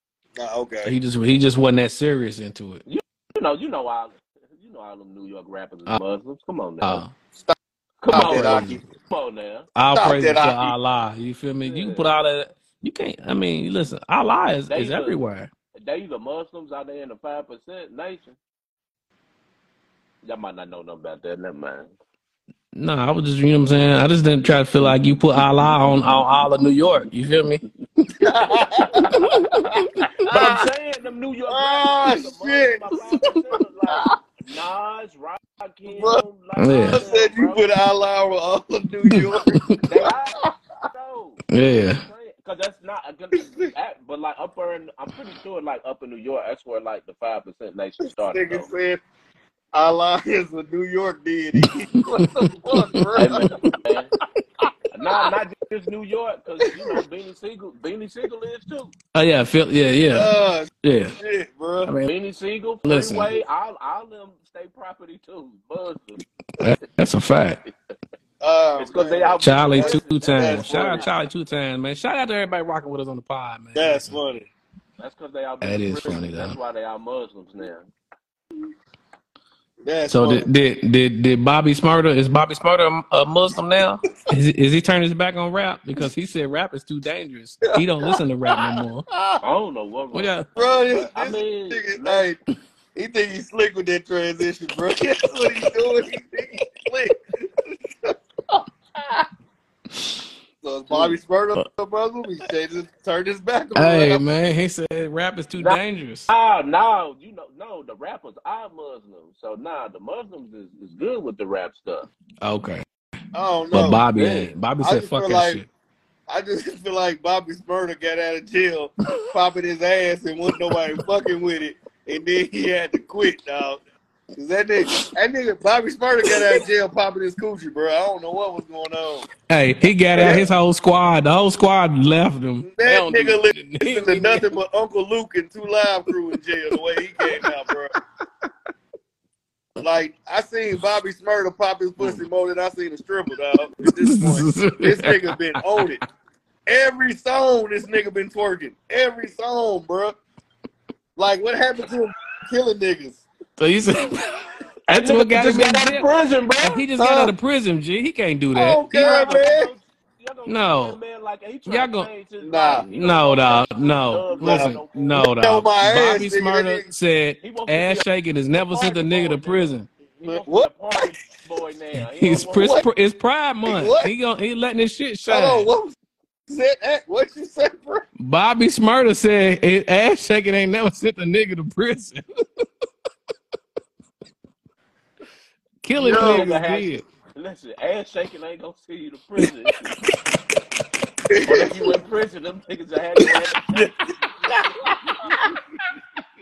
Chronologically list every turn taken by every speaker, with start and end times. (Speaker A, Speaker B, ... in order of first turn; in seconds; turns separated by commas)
Speaker A: 0.4-0.9, Speaker B: 0.8-2.8, Speaker C: 2.9-7.0, Speaker B: 6.8-7.1, Speaker C: 8.0-9.7, Speaker A: 8.1-8.8, Speaker B: 8.1-8.8, Speaker B: 9.8-15.5, Speaker A: 9.9-10.8, Speaker C: 11.6-12.1, Speaker C: 14.7-15.2, Speaker C: 15.8-18.4, Speaker C: 20.2-21.9, Speaker B: 22.8-27.6, Speaker A: 28.2-29.2, Speaker C: 28.8-29.2, Speaker B: 29.1-30.1, Speaker A: 30.2-30.6, Speaker C: 30.3-37.6, Speaker A: 31.5-32.8, Speaker A: 35.9-36.2, Speaker B: 36.6-37.0, Speaker A: 36.9-39.8, Speaker B: 39.1-39.8, Speaker C: 39.9-48.7, Speaker B: 41.5-42.0, Speaker A: 43.4-43.7, Speaker A: 48.3-49.0, Speaker A: 49.7-53.6, Speaker B: 51.5-53.1, Speaker C: 53.2-54.1, Speaker C: 54.9-58.9, Speaker B: 59.1-60.3, Speaker A: 60.1-61.9, Speaker B: 60.8-61.2, Speaker B: 61.9-62.1, Speaker C: 62.0-66.2, Speaker B: 62.9-63.4, Speaker B: 66.6-67.6, Speaker A: 68.4-71.0, Speaker C: 68.8-71.1, Speaker B: 69.4-74.2, Speaker A: 73.8-74.5, Speaker C: 75.0-77.9, Speaker B: 75.6-76.6, Speaker A: 79.8-80.5, Speaker B: 80.1-89.1, Speaker A: 87.7-89.4, Speaker C: 89.4-92.3, Speaker B: 90.1-90.5, Speaker A: 90.6-92.4, Speaker A: 93.0-97.2, Speaker A: 98.0-98.6, Speaker A: 100.6-104.2, Speaker C: 100.9-101.2, Speaker B: 103.8-106.3, Speaker C: 105.6-112.1, Speaker B: 112.4-112.8, Speaker A: 113.3-114.0, Speaker B: 113.7-115.7, Speaker C: 114.2-114.5, Speaker A: 114.8-115.6, Speaker A: 116.3-123.8, Speaker B: 120.7-121.0, Speaker A: 124.3-129.3, Speaker B: 126.3-126.6, Speaker B: 129.5-134.5, Speaker A: 130.1-130.5, Speaker A: 132.6-138.0, Speaker B: 137.2-137.5, Speaker A: 139.8-146.0, Speaker B: 142.0-142.2, Speaker B: 143.8-145.8, Speaker A: 146.7-150.2, Speaker A: 151.2-153.2, Speaker B: 153.6-154.3, Speaker B: 154.9-156.1, Speaker C: 154.9-156.8, Speaker B: 156.6-158.8, Speaker A: 157.0-157.3, Speaker A: 158.5-159.7, Speaker C: 158.9-165.3, Speaker B: 160.5-161.0, Speaker B: 161.7-162.1, Speaker A: 162.4-162.8, Speaker B: 162.9-169.9, Speaker A: 164.4-166.9, Speaker C: 167.4-168.1, Speaker C: 168.6-172.8, Speaker A: 170.3-171.1, Speaker B: 172.0-175.7, Speaker A: 172.5-172.9, Speaker A: 173.7-174.1, Speaker A: 175.3-175.9, Speaker A: 176.5-178.1, Speaker B: 178.2-182.2, Speaker B: 185.8-187.0, Speaker A: 186.0-186.5, Speaker C: 186.1-189.9, Speaker A: 191.3-192.0, Speaker C: 191.4-193.9, Speaker A: 193.7-195.5, Speaker C: 195.0-195.4